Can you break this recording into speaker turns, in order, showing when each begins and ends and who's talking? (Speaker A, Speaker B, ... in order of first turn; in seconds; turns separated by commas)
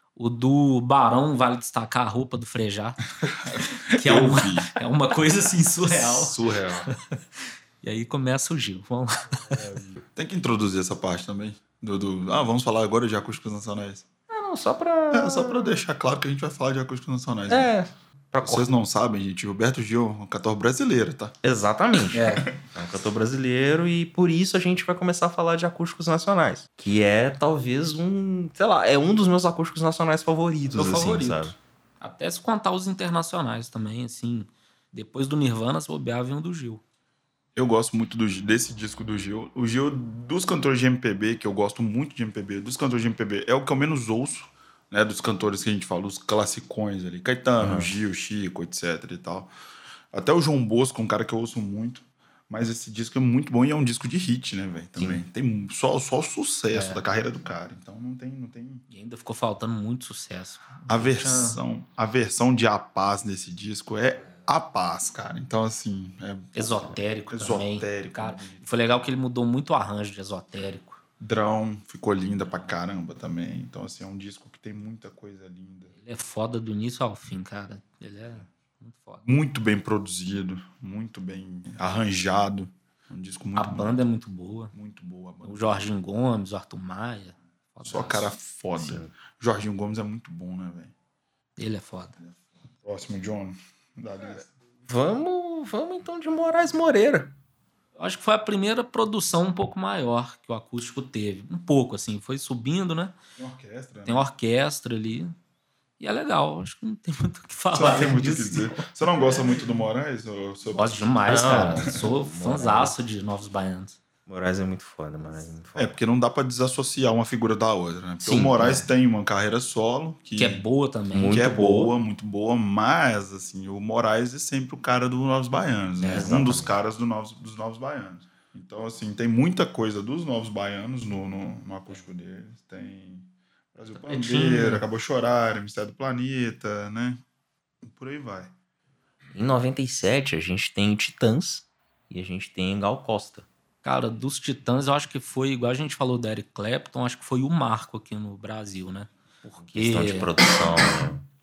Speaker A: 0.2-7.2, Speaker B: 3.4-4.7, Speaker B: 5.9-6.9, Speaker A: 7.8-9.6, Speaker B: 9.5-14.1, Speaker C: 14.3-15.8, Speaker B: 15.1-17.7, Speaker C: 17.5-18.7, Speaker B: 18.4-21.3, Speaker C: 21.4-31.5, Speaker A: 22.1-22.5, Speaker A: 30.7-36.8, Speaker B: 37.5-49.5, Speaker C: 47.6-47.9, Speaker B: 50.1-58.8, Speaker C: 55.0-55.2, Speaker A: 56.7-57.0, Speaker A: 58.9-61.6, Speaker B: 60.9-68.7, Speaker A: 66.5-71.0, Speaker B: 71.2-75.9, Speaker A: 76.0-79.2, Speaker B: 79.2-84.0, Speaker A: 83.6-84.7, Speaker B: 84.7-85.8, Speaker A: 85.4-88.3, Speaker B: 87.8-90.9, Speaker C: 88.8-89.1, Speaker A: 91.6-92.2, Speaker B: 92.2-94.5, Speaker C: 94.9-97.3, Speaker A: 98.0-103.1, Speaker B: 103.4-104.2, Speaker A: 104.1-105.3, Speaker A: 106.0-109.6, Speaker B: 107.7-112.0, Speaker A: 110.7-114.0, Speaker C: 111.3-112.9, Speaker C: 114.3-115.9, Speaker B: 115.8-120.6, Speaker C: 118.2-118.8, Speaker A: 120.4-121.8, Speaker C: 121.1-121.9, Speaker B: 121.2-137.2, Speaker A: 126.0-126.4, Speaker C: 126.1-126.7, Speaker A: 134.0-134.8, Speaker B: 137.8-138.5, Speaker C: 139.3-143.5, Speaker A: 143.8-150.3, Speaker C: 149.6-151.2